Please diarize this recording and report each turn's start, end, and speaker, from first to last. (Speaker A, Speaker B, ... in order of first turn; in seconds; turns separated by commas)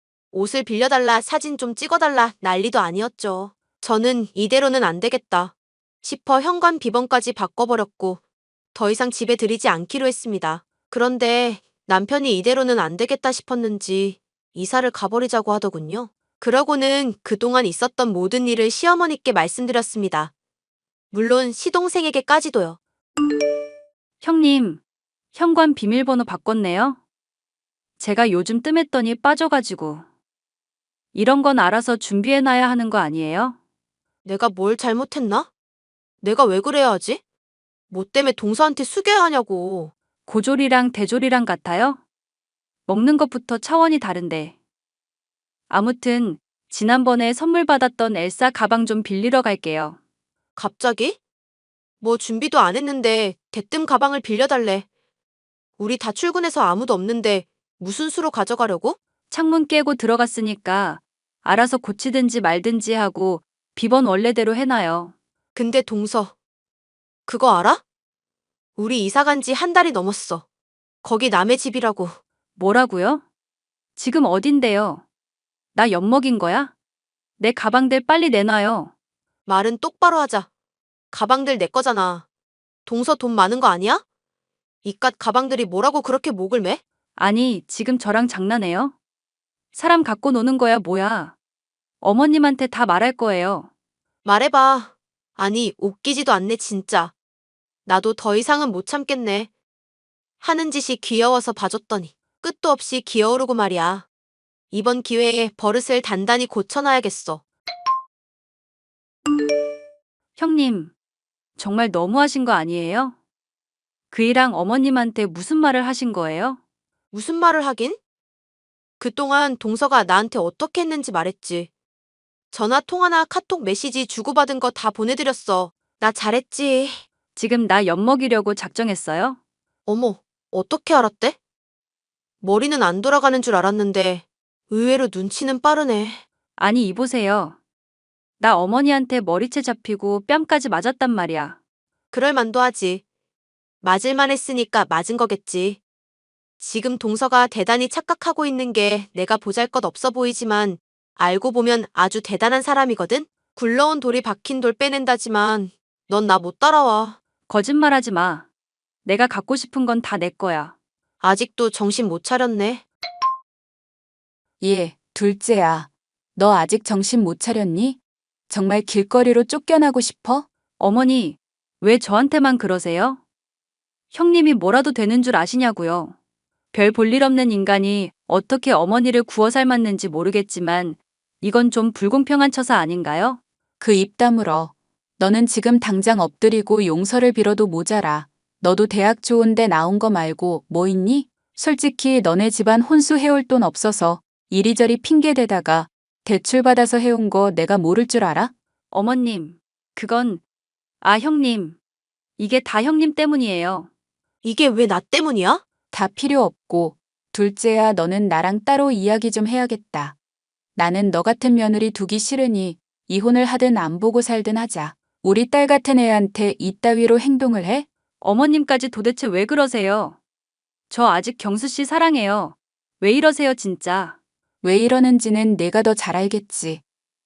Speaker A: 0.3-5.5, Speaker A: 6.0-8.2, Speaker A: 8.7-20.3, Speaker A: 21.1-22.8, Speaker B: 24.2-24.8, Speaker B: 25.3-27.0, Speaker B: 28.0-30.1, Speaker B: 31.1-33.6, Speaker A: 34.2-35.5, Speaker A: 36.2-37.2, Speaker A: 37.9-39.9, Speaker B: 40.3-42.0, Speaker B: 42.9-44.5, Speaker B: 45.7-50.0, Speaker A: 50.6-51.2, Speaker A: 52.0-54.9, Speaker A: 55.8-59.0, Speaker B: 59.3-65.1, Speaker A: 65.5-66.3, Speaker A: 67.3-67.8, Speaker A: 68.8-70.4, Speaker A: 71.0-72.2, Speaker B: 72.6-73.2, Speaker B: 74.0-75.0, Speaker B: 75.8-76.7, Speaker B: 77.4-78.9, Speaker A: 79.5-80.5, Speaker A: 81.1-82.2, Speaker A: 82.9-84.0, Speaker A: 84.8-86.8, Speaker B: 87.2-88.9, Speaker B: 89.7-91.3, Speaker B: 92.0-93.7, Speaker A: 94.2-97.1, Speaker A: 97.9-99.5, Speaker A: 100.4-104.0, Speaker A: 104.7-107.4, Speaker B: 110.4-110.9, Speaker B: 111.6-113.2, Speaker B: 114.1-116.6, Speaker A: 117.1-118.0, Speaker A: 119.0-121.7, Speaker A: 122.5-127.0, Speaker B: 127.3-129.4, Speaker A: 129.9-131.4, Speaker A: 132.4-136.2, Speaker B: 136.6-137.6, Speaker B: 138.4-141.6, Speaker A: 142.1-143.0, Speaker A: 143.8-145.8, Speaker A: 146.6-157.2, Speaker B: 157.5-158.4, Speaker B: 159.1-160.7, Speaker A: 161.2-162.8, Speaker C: 164.6-168.0, Speaker C: 168.5-170.5, Speaker B: 170.8-173.2, Speaker B: 174.1-176.2, Speaker B: 176.7-183.4, Speaker C: 183.8-198.5, Speaker B: 198.9-200.4, Speaker B: 201.0-201.8, Speaker B: 202.4-203.9, Speaker A: 204.4-205.6, Speaker C: 205.9-210.2, Speaker C: 210.8-217.9, Speaker B: 218.2-220.2, Speaker B: 220.9-224.2, Speaker C: 224.6-226.8